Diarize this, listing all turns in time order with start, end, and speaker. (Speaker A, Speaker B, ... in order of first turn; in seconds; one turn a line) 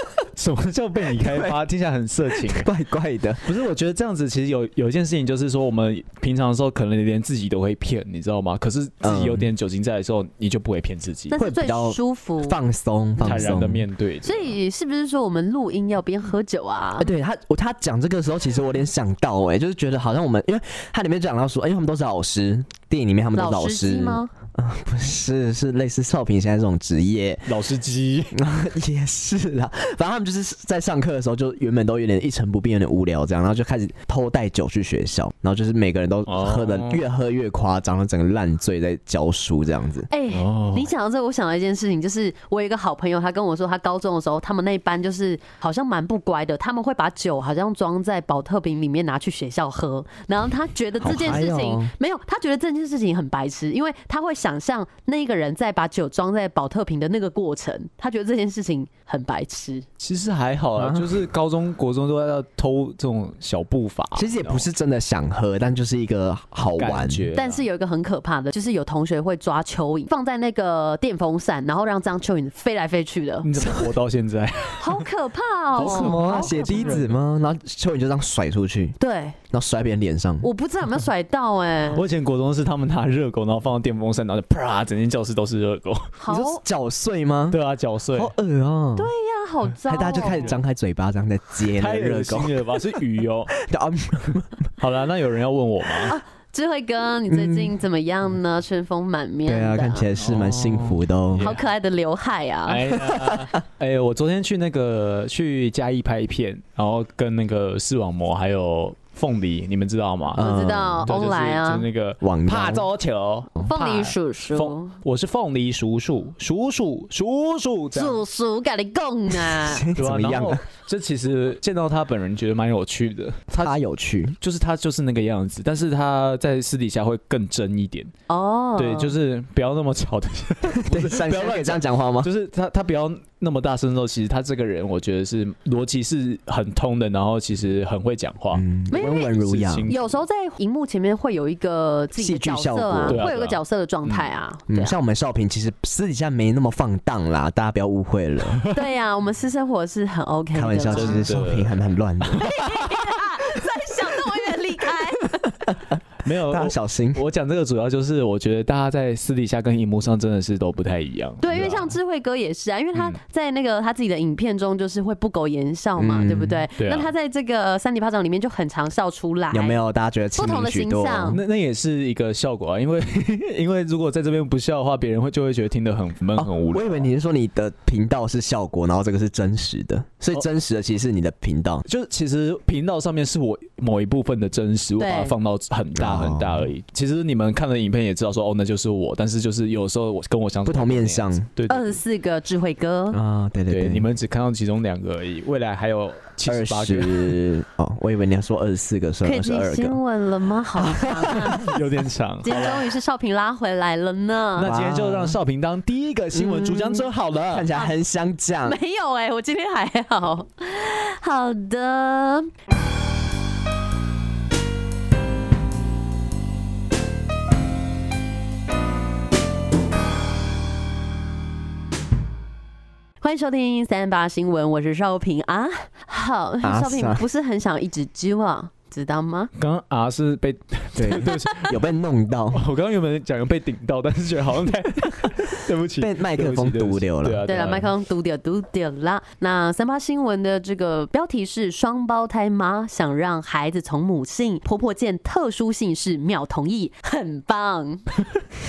Speaker A: 0.3-2.7
Speaker B: 1.2-1.6
Speaker B: 2.3-3.5
Speaker A: 3.4-11.3
Speaker B: 9.0-9.5
Speaker C: 11.3-12.6
Speaker B: 11.3-13.8
Speaker A: 13.2-14.6
Speaker C: 14.2-17.1
Speaker B: 17.0-27.6
Speaker C: 23.3-24.3
Speaker A: 27.5-28.3
Speaker B: 28.3-40.1
Speaker A: 36.3-37.0
Speaker C: 40.1-59.8
Speaker A: 40.3-40.9
Speaker B: 51.0-51.9
Speaker A: 60.0-64.7
Speaker B: 60.8-61.2
Speaker B: 64.1-67.3
Speaker A: 66.8-67.6
Speaker C: 67.3-73.5
Speaker A: 73.4-75.1
Speaker C: 74.8-77.0
Speaker A: 75.7-77.2
Speaker B: 75.8-79.0
Speaker C: 79.0-79.4
Speaker B: 79.5-80.5
Speaker C: 80.4-82.0
Speaker A: 81.9-86.1
Speaker C: 86.2-86.6
Speaker B: 86.3-87.6
Speaker A: 87.5-88.3
Speaker B: 88.1-89.1
Speaker C: 89.0-90.5
Speaker B: 89.8-92.6
Speaker A: 90.3-90.6
Speaker A: 91.7-93.6
Speaker B: 93.6-94.7
Speaker A: 94.8-96.1
Speaker C: 96.0-100.1
Speaker B: 97.3-97.7
Speaker B: 99.5-101.5
Speaker A: 100.2-101.6
Speaker C: 101.4-103.0
Speaker A: 102.7-110.4
Speaker B: 110.3-111.1
Speaker C: 110.4-111.9
Speaker A: 111.0-118.2
Speaker B: 112.2-112.9
Speaker C: 113.6-114.9
Speaker C: 117.9-119.9
Speaker B: 119.5-120.6
Speaker A: 120.0-123.8
Speaker B: 123.5-124.4
Speaker A: 124.4-128.1
Speaker C: 128.3-129.1
Speaker A: 128.8-140.2
Speaker B: 130.7-132.3
Speaker B: 138.5-139.9
Speaker C: 138.9-139.3
Speaker C: 139.9-144.9
Speaker B: 142.2-143.2
Speaker A: 143.1-144.3
Speaker B: 144.7-148.6
Speaker C: 148.7-151.2
Speaker B: 150.5-152.5
Speaker A: 150.9-152.5
Speaker C: 152.4-155.5
Speaker A: 156.2-162.0
Speaker B: 156.5-157.2
Speaker C: 161.4-169.8
Speaker B: 166.0-166.6
Speaker A: 166.8-167.1
Speaker B: 169.5-171.4
Speaker C: 170.3-171.4
Speaker A: 171.3-177.1
Speaker B: 176.4-181.8
Speaker A: 181.8-192.0
Speaker C: 185.0-185.3
Speaker B: 185.9-186.7
Speaker B: 190.7-191.5
Speaker C: 191.7-193.2
Speaker B: 193.1-194.1
Speaker A: 193.7-197.3
Speaker B: 196.4-200.0
Speaker C: 199.2-201.8
Speaker B: 200.8-201.7
Speaker A: 201.3-202.8
Speaker C: 202.4-204.7
Speaker A: 204.6-207.7
Speaker B: 204.6-205.4
Speaker B: 206.3-208.8
Speaker C: 208.6-212.5
Speaker C: 223.2-229.5
Speaker B: 226.6-227.2
Speaker A: 229.5-231.8
Speaker B: 230.9-232.6
Speaker A: 232.5-237.9
Speaker B: 236.0-237.4
Speaker C: 237.4-248.1